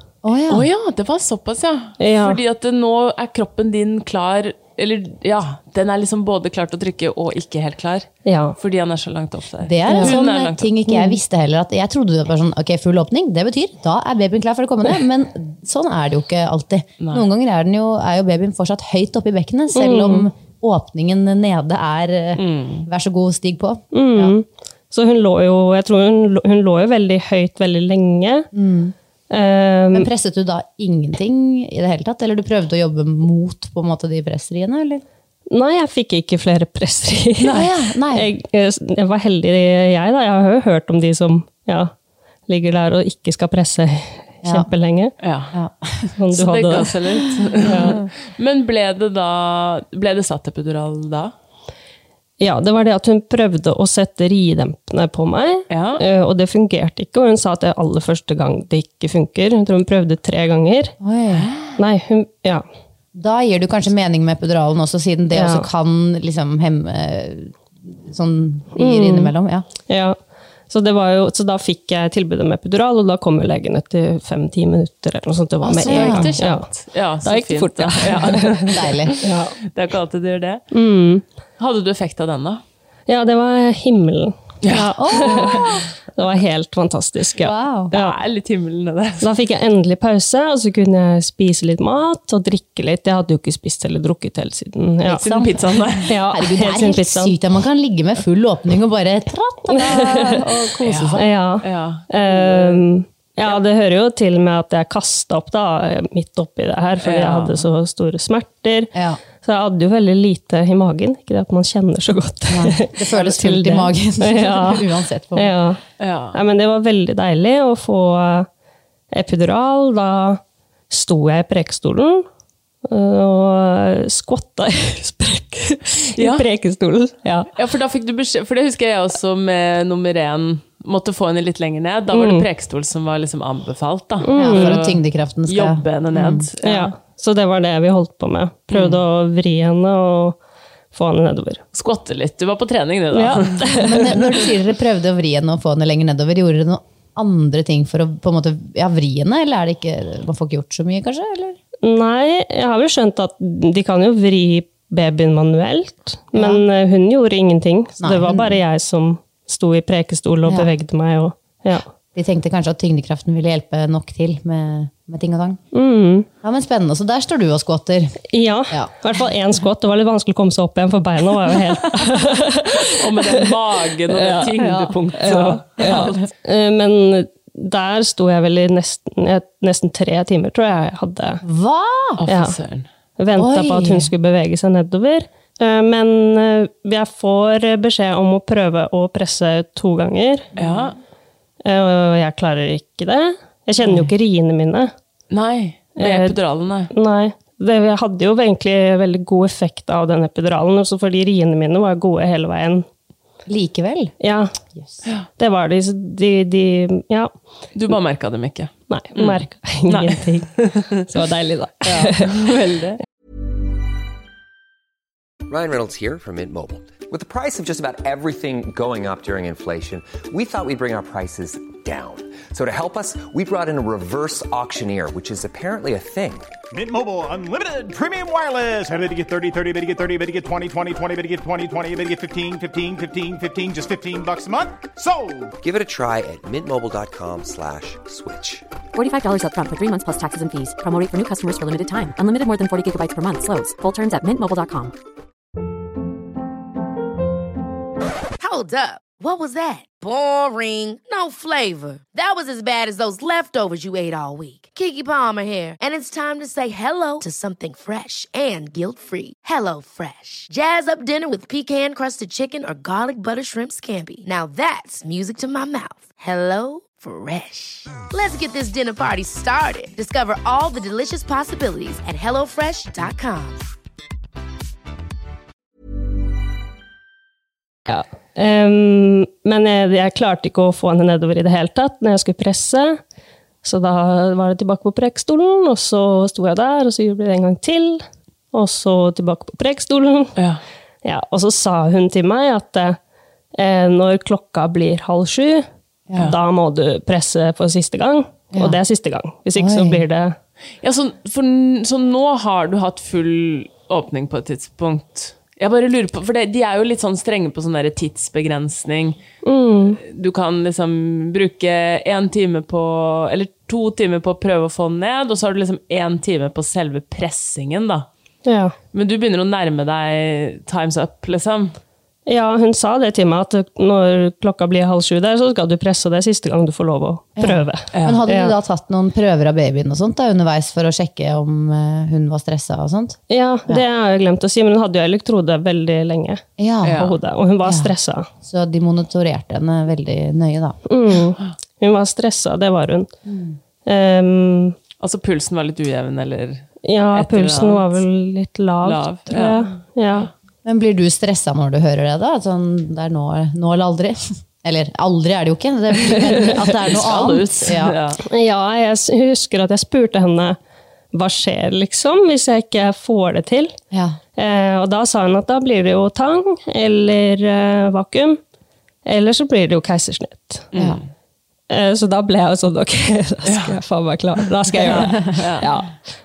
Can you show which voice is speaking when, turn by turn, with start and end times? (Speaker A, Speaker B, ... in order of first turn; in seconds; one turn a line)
Speaker A: 0.2-0.7
Speaker B: 0.5-10.7
Speaker C: 2.0-2.4
Speaker C: 8.2-8.6
Speaker A: 9.6-24.3
Speaker C: 9.9-10.1
Speaker C: 10.9-11.2
Speaker B: 17.0-17.2
Speaker C: 19.7-20.3
Speaker B: 22.4-22.9
Speaker C: 23.9-28.5
Speaker A: 28.5-28.9
Speaker C: 29.3-30.1
Speaker A: 29.9-35.0
Speaker C: 35.5-41.9
Speaker A: 37.4-38.3
Speaker C: 42.5-45.1
Speaker B: 45.2-45.5
Speaker A: 45.5-46.1
Speaker C: 46.2-46.9
Speaker B: 46.3-51.3
Speaker C: 47.6-48.0
Speaker C: 52.4-61.0
Speaker B: 55.7-56.0
Speaker A: 61.0-61.5
Speaker B: 61.3-61.7
Speaker C: 61.8-62.6
Speaker A: 63.1-69.7
Speaker C: 65.3-65.7
Speaker C: 68.8-69.3
Speaker C: 69.9-70.2
Speaker C: 70.7-76.7
Speaker B: 75.6-80.6
Speaker A: 75.8-76.3
Speaker C: 77.2-79.5
Speaker A: 78.7-79.2
Speaker C: 80.7-81.2
Speaker B: 81.6-82.6
Speaker C: 83.1-88.1
Speaker B: 84.6-85.7
Speaker A: 85.0-85.8
Speaker A: 87.4-87.9
Speaker B: 87.9-89.3
Speaker C: 89.2-95.2
Speaker B: 95.1-96.1
Speaker A: 95.1-101.2
Speaker C: 96.1-97.3
Speaker C: 99.7-108.9
Speaker B: 100.8-102.8
Speaker B: 107.0-107.7
Speaker A: 108.9-109.2
Speaker C: 109.4-115.8
Speaker A: 112.5-115.5
Speaker B: 116.0-116.4
Speaker C: 116.3-118.5
Speaker C: 119.1-122.2
Speaker C: 122.8-127.5
Speaker B: 126.2-126.4
Speaker B: 127.5-136.9
Speaker C: 132.1-132.4
Speaker C: 134.2-134.8
Speaker A: 134.3-136.5
Speaker C: 136.6-140.4
Speaker B: 138.7-139.0
Speaker C: 140.9-141.6
Speaker B: 141.7-144.0
Speaker C: 143.1-144.2
Speaker A: 143.8-151.6
Speaker C: 151.8-161.8
Speaker A: 156.3-156.6
Speaker A: 158.0-158.6
Speaker A: 162.1-165.6
Speaker C: 165.7-166.3
Speaker A: 166.4-168.9
Speaker C: 168.3-173.4
Speaker B: 172.9-176.2
Speaker C: 174.1-181.4
Speaker A: 181.4-182.2
Speaker B: 182.2-182.9
Speaker C: 182.3-182.5
Speaker C: 183.2-190.5
Speaker A: 183.3-184.1
Speaker A: 190.5-190.9
Speaker B: 190.6-190.9
Speaker C: 191.6-194.9
Speaker B: 195.3-196.9
Speaker C: 196.0-196.4
Speaker C: 196.9-202.8
Speaker A: 203.5-204.1
Speaker C: 204.2-204.5
Speaker C: 205.4-207.3
Speaker B: 207.7-211.0
Speaker C: 208.9-212.5
Speaker B: 211.8-213.0
Speaker D: 215.5-226.5
Speaker E: 226.7-235.5
Speaker D: 235.6-238.7
Speaker F: 238.9-244.9
Speaker G: 248.4-273.6
Speaker C: 277.9-283.0
Speaker C: 283.6-290.3
Speaker B: 290.4-290.6
Speaker C: 291.0-293.0
Speaker C: 293.5-295.6
Speaker C: 296.2-300.4
Speaker A: 298.5-298.8
Speaker A: 299.6-300.0
Speaker B: 300.8-309.2
Speaker C: 309.4-310.0
Speaker B: 309.9-318.1
Speaker C: 318.4-318.7
Speaker B: 318.9-321.8
Speaker C: 322.3-328.5
Speaker A: 327.4-333.8
Speaker B: 327.9-328.2
Speaker C: 333.3-336.4
Speaker A: 336.6-337.0
Speaker B: 336.8-337.2
Speaker C: 336.9-338.3
Speaker A: 337.6-340.8
Speaker C: 340.9-343.1
Speaker A: 343.2-343.6
Speaker C: 343.9-344.7
Speaker B: 345.0-348.0
Speaker C: 346.8-350.3
Speaker B: 348.8-349.6
Speaker A: 350.6-357.9
Speaker B: 356.2-358.2
Speaker C: 358.3-360.6
Speaker C: 361.1-363.7
Speaker A: 363.9-364.2
Speaker C: 364.4-368.4
Speaker C: 369.1-370.7
Speaker B: 370.7-371.0
Speaker C: 371.7-375.9
Speaker B: 373.4-373.8
Speaker B: 374.8-375.6